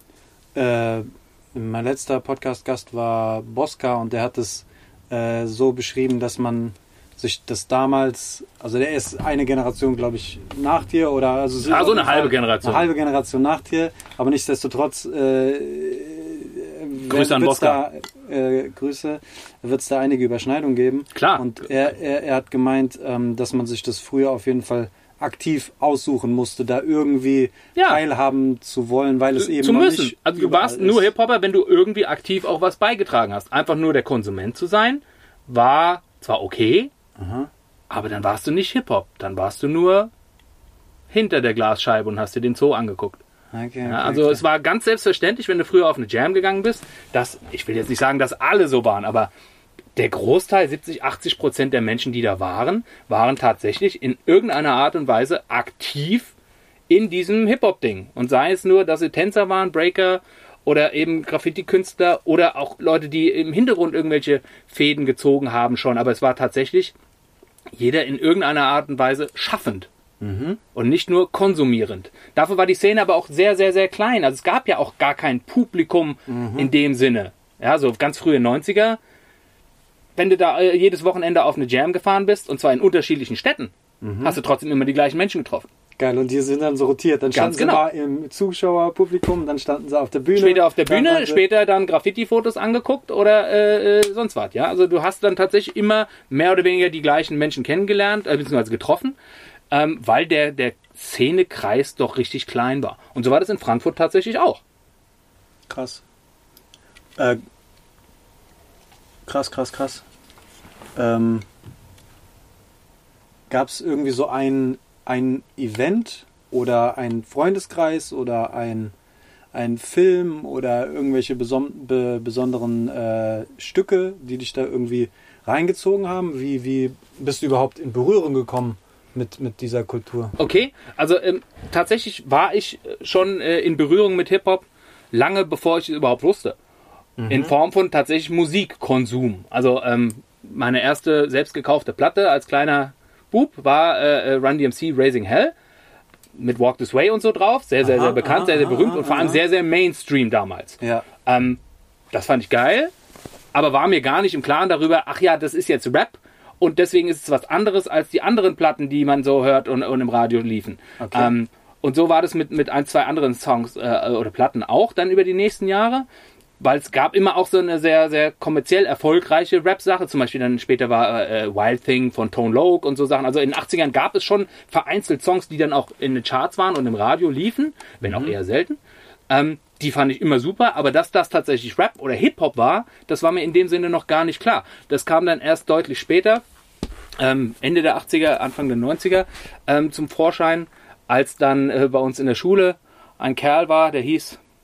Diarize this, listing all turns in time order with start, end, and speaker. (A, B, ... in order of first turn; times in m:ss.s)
0:00.6-0:31.1 A
0:11.6-0:12.9 B
0:17.0-0:17.8 B
0:21.2-0:21.5 B
0:27.8-0:28.0 B
0:29.4-0:36.9 B
0:37.2-0:37.5 A
0:37.9-0:40.1 B
0:41.1-0:43.2 B
0:43.5-0:44.4 A
0:43.9-0:49.3 B
0:50.0-0:56.3 B
0:56.9-1:06.9 B
1:07.7-1:09.9 B
1:10.2-1:10.6 A
1:10.8-1:19.0 B
1:16.3-1:16.7 A
1:20.2-1:25.7 B
1:24.0-1:24.4 A
1:26.0-1:31.4 A
1:27.3-1:27.9 B
1:30.4-1:39.2 B
1:39.7-1:44.6 B
1:45.7-1:46.0 A
1:49.3-1:50.0 A
1:51.0-1:51.5 A
1:53.5-1:58.9 A
1:59.5-2:10.4 A
2:10.4-2:16.6 B
2:17.2-2:17.6 A
2:17.3-2:25.5 B
2:26.4-2:31.6 B
2:27.8-2:29.4 A
2:30.8-2:31.1 A
2:32.1-2:32.9 B
2:33.5-2:46.1 B
2:41.0-2:41.3 A
2:46.6-2:58.8 B
2:58.1-2:58.4 A
2:59.3-3:06.4 B
3:07.2-3:14.4 B